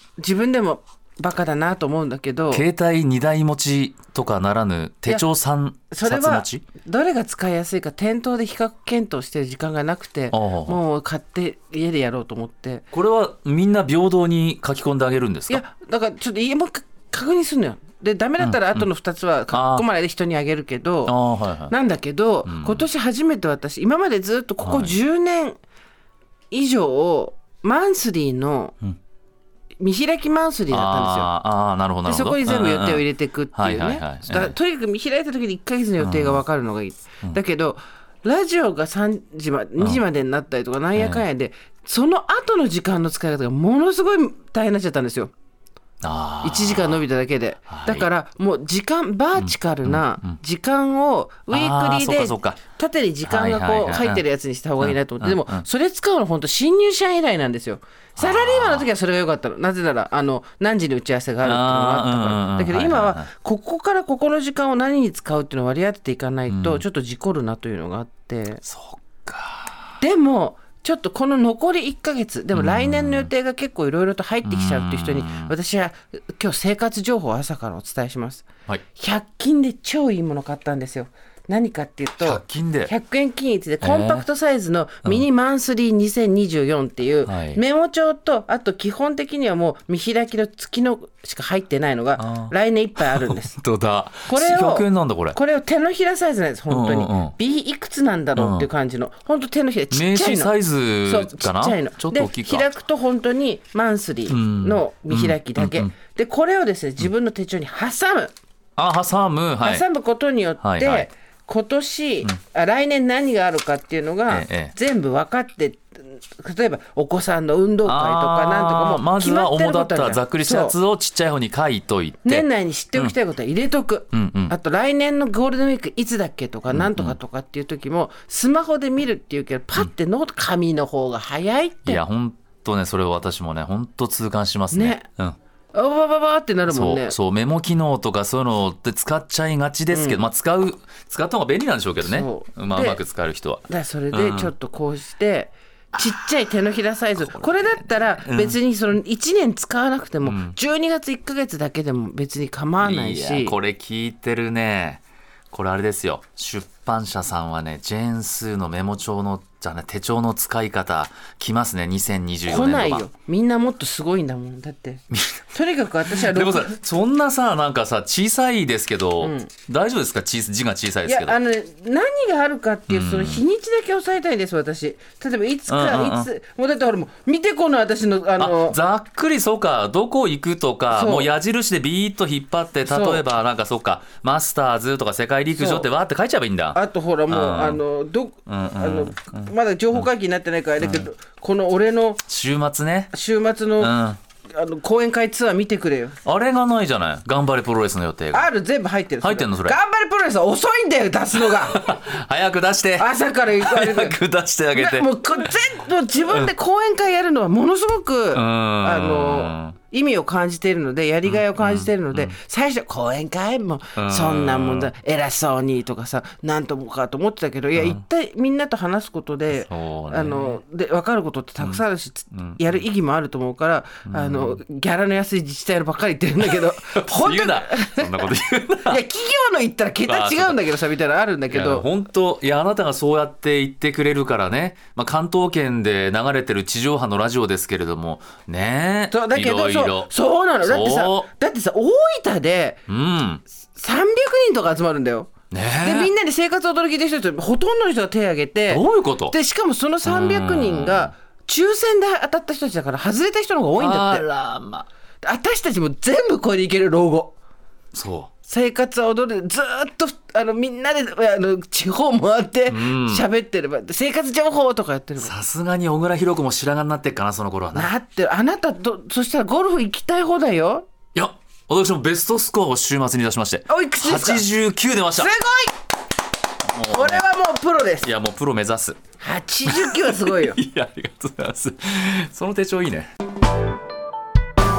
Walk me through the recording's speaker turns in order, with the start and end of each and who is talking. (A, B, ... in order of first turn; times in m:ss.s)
0:00.2-0:02.6 A
0:02.5-0:06.6 B
0:05.9-0:12.9 A
0:10.3-0:10.8 B
0:12.9-0:15.6 B
0:15.5-0:21.2 A
0:18.4-0:18.9 B
0:19.5-0:19.8 B
0:21.1-0:21.7 B
0:21.7-0:25.6 A
0:22.4-0:22.8 B
0:24.6-0:25.0 B
0:26.5-0:28.8 A
0:29.8-0:31.3 A
0:30.7-0:34.5 B
0:32.0-0:45.3 A
0:36.0-0:36.4 B
0:41.0-0:41.2 B
0:46.0-0:47.0 B
0:46.4-1:08.6 A
0:47.7-0:48.1 B
0:49.4-0:50.4 B
0:51.5-0:52.6 B
0:53.2-0:54.2 B
0:54.8-0:55.6 B
0:58.2-0:58.9 B
1:01.4-1:03.3 B
1:06.5-1:06.8 B
1:08.6-1:09.8 B
1:10.0-1:33.6 A
1:12.5-1:13.3 B
1:14.4-1:15.5 B
1:22.2-1:22.9 B
1:23.8-1:24.2 B
1:27.2-1:27.6 B
1:32.2-1:35.4 B
1:34.3-1:40.5 A
1:36.7-1:37.4 B
1:38.4-1:38.7 B
1:39.9-1:42.7 B
1:41.0-1:48.3 A
1:44.3-1:45.9 B
1:48.8-1:49.8 B
1:49.6-2:00.8 A
1:50.6-1:51.1 B
1:54.3-1:54.7 B
1:57.8-2:03.1 B
2:02.2-2:12.0 A
2:04.1-2:04.5 B
2:06.7-2:07.2 B
2:11.8-2:15.4 B
2:14.7-2:15.0 A
2:15.7-2:17.2 A
2:16.7-2:24.5 B
2:19.9-2:20.2 A
2:22.0-2:23.0 A
2:23.7-2:33.6 A
2:25.9-2:26.3 B
2:27.2-2:28.6 B
2:30.2-2:30.6 B
2:32.8-2:43.1 B
2:42.5-2:46.8 A
2:45.1-2:45.4 B
2:46.1-2:51.4 B
2:49.2-2:49.5 A
2:51.0-2:58.8 A
2:52.9-2:53.4 B
2:55.7-2:56.3 B
2:58.4-3:06.8 B
3:00.9-3:01.3 A
3:02.9-3:03.2 A
3:05.5-3:05.9 A
3:06.7-3:12.2 A
3:07.3-3:07.8 B
3:08.5-3:10.1 B
3:10.8-3:11.1 B
3:12.3-3:13.1 B
3:13.1-3:14.0 A
3:13.8-3:14.2 B
3:14.5-3:16.2 A
3:16.2-3:18.5 B
3:18.3-3:21.9 A
3:19.2-3:19.8 B
3:21.3-3:25.1 B
3:23.0-3:24.2 A
3:24.7-3:48.3 A
3:28.3-3:29.8 B
3:31.2-3:32.4 B
3:34.0-3:34.9 B
3:37.8-3:38.0 B
3:39.6-3:40.6 B
3:42.3-3:42.8 B
3:44.1-3:44.6 B
3:46.4-3:49.0 B
3:48.9-3:51.9 A
3:50.1-3:50.7 B
3:51.5-4:00.1 B
3:59.1-4:02.8 A
4:00.6-4:01.3 B
4:02.9-4:03.4 B
4:03.6-4:14.3 A
4:05.5-4:06.1 B
4:08.7-4:09.4 B
4:10.0-4:11.1 B
4:13.8-4:14.9 B
4:15.2-4:17.3 A
4:17.9-4:18.3 B
4:18.4-4:25.3 A
4:22.7-4:23.2 B
4:25.2-4:27.9 B
4:27.7-4:30.9 A
4:31.2-4:35.3 B
4:33.7-4:34.5 A
4:35.1-4:35.7 A
4:36.7-4:37.2 B
4:36.9-4:38.1 A
4:38.0-4:39.0 B
4:39.2-4:40.6 A
4:39.7-4:43.1 B